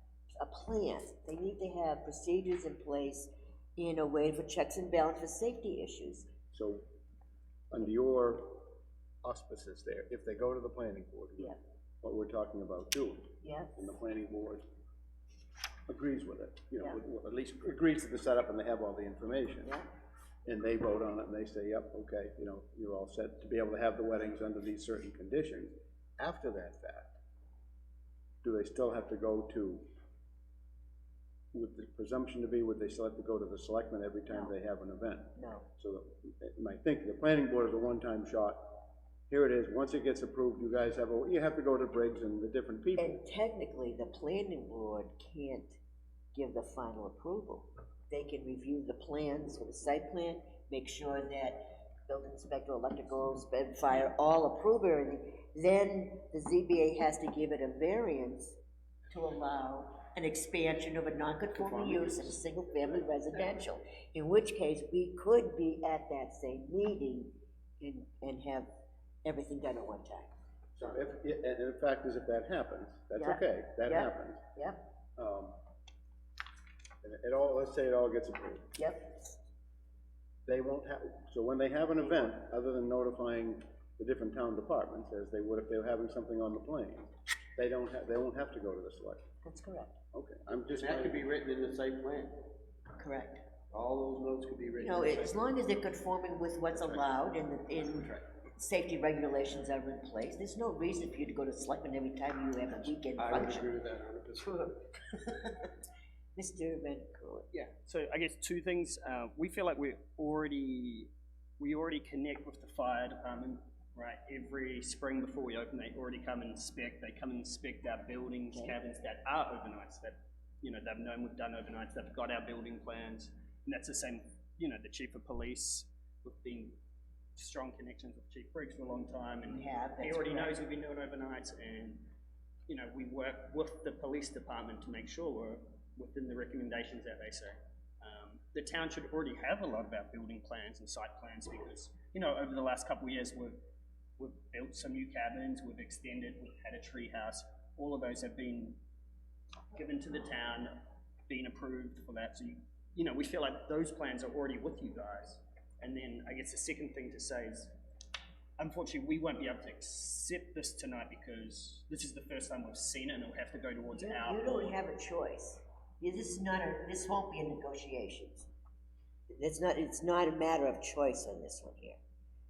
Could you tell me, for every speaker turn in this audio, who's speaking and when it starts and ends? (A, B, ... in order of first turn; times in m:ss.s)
0:00.4-0:06.3 A
0:06.5-0:06.8 B
0:07.7-0:14.6 B
0:13.4-0:13.9 A
0:15.9-0:19.7 B
0:19.6-0:19.9 A
0:20.5-0:27.2 B
0:28.4-0:29.9 B
0:31.5-0:43.2 B
0:34.3-0:34.6 A
0:35.4-0:35.7 A
0:43.0-0:45.8 A
0:46.3-0:58.6 A
0:59.1-1:08.7 A
1:01.6-1:02.4 C
1:09.2-1:10.3 A
1:10.8-1:14.4 B
1:13.2-1:14.9 A
1:15.2-1:15.6 B
1:17.0-1:18.7 B
1:18.8-1:19.4 A
1:20.5-1:29.2 B
1:22.0-1:22.3 A
1:29.4-1:30.0 A
1:30.1-1:31.2 B
1:30.7-1:32.4 C
1:33.0-1:33.5 A
1:33.7-1:35.4 C
1:34.8-1:43.7 A
1:43.2-1:45.2 C
1:46.4-1:47.5 A
1:47.5-2:06.8 D
2:07.4-2:12.1 D
2:09.4-2:10.6 A
2:12.7-2:23.6 D
2:24.2-2:28.8 D
2:29.7-2:30.8 D
2:31.3-2:37.7 D
2:38.6-2:44.8 D
2:43.9-2:48.5 A
2:49.4-2:52.0 A